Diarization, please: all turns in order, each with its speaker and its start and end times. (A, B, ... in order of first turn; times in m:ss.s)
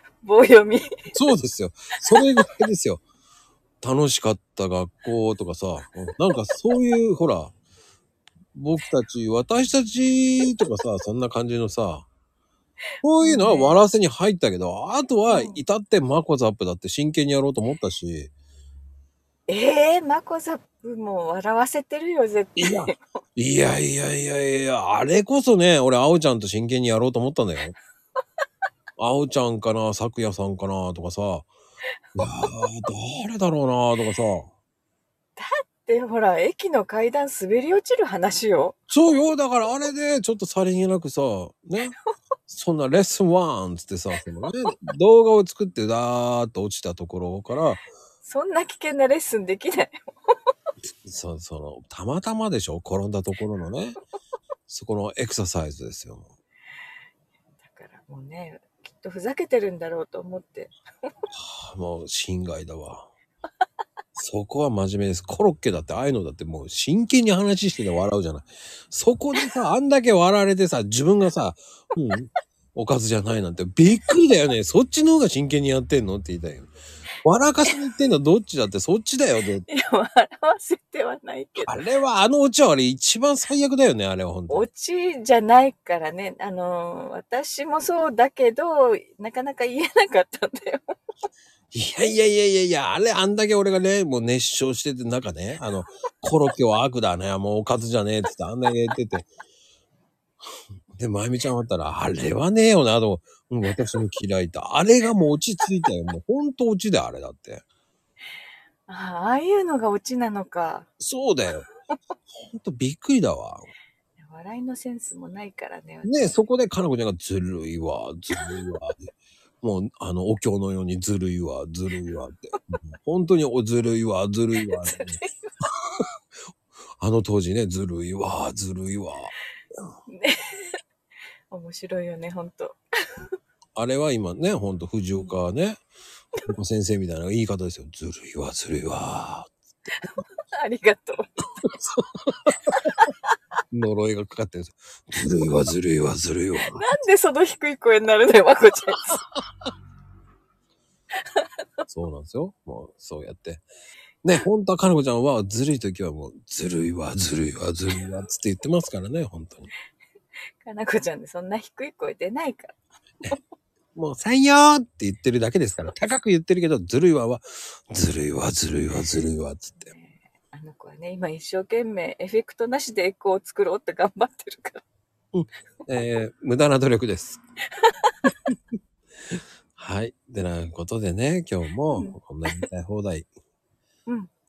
0:00.2-0:00.8 A
0:01.1-0:03.0 B
0:02.1-0:02.4 A
0:03.8-0:07.5 B
0:08.5-0:12.1 B
0:13.0-0:18.3 B
0:13.2-0:13.8 A
0:15.3-0:15.6 A
0:19.5-0:23.0 A
0:22.6-0:27.7 B
0:29.0-0:31.5 B
0:32.2-0:34.5 B
0:35.4-0:38.8 A
0:38.9-0:41.9 B
0:42.5-0:47.8 B
0:48.2-0:50.4 A
0:51.0-0:54.0 B
0:54.7-0:56.3 B
0:57.6-1:01.1 A
1:01.3-1:03.1 B
1:04.2-1:16.7 B
1:17.2-1:19.6 B
1:19.7-1:21.7 A
1:21.6-1:24.7 B
1:24.5-1:31.0 A
1:31.7-1:39.3 B
1:40.9-1:47.6 B
1:48.9-1:50.9 A
1:51.0-1:51.6 B
1:52.3-1:53.7 B
1:54.2-1:56.4 A
1:56.0-1:59.0 B
1:59.6-2:06.0 B
2:04.6-2:05.5 A
2:07.0-2:09.3 B
2:10.1-2:10.8 A
2:11.5-2:13.3 A
2:13.8-2:15.8 B
2:16.5-2:19.6 B
2:20.0-2:21.6 A
2:21.6-2:22.5 B
2:23.7-2:26.9 B
2:26.6-2:29.2 A
2:31.9-2:33.6 B
2:34.2-2:39.7 B
2:40.6-2:43.4 A
2:43.9-2:49.9 B
2:49.8-2:54.8 A
2:55.3-2:57.4 B
2:57.8-2:58.1 A
2:59.8-3:03.3 B
3:01.9-3:02.6 A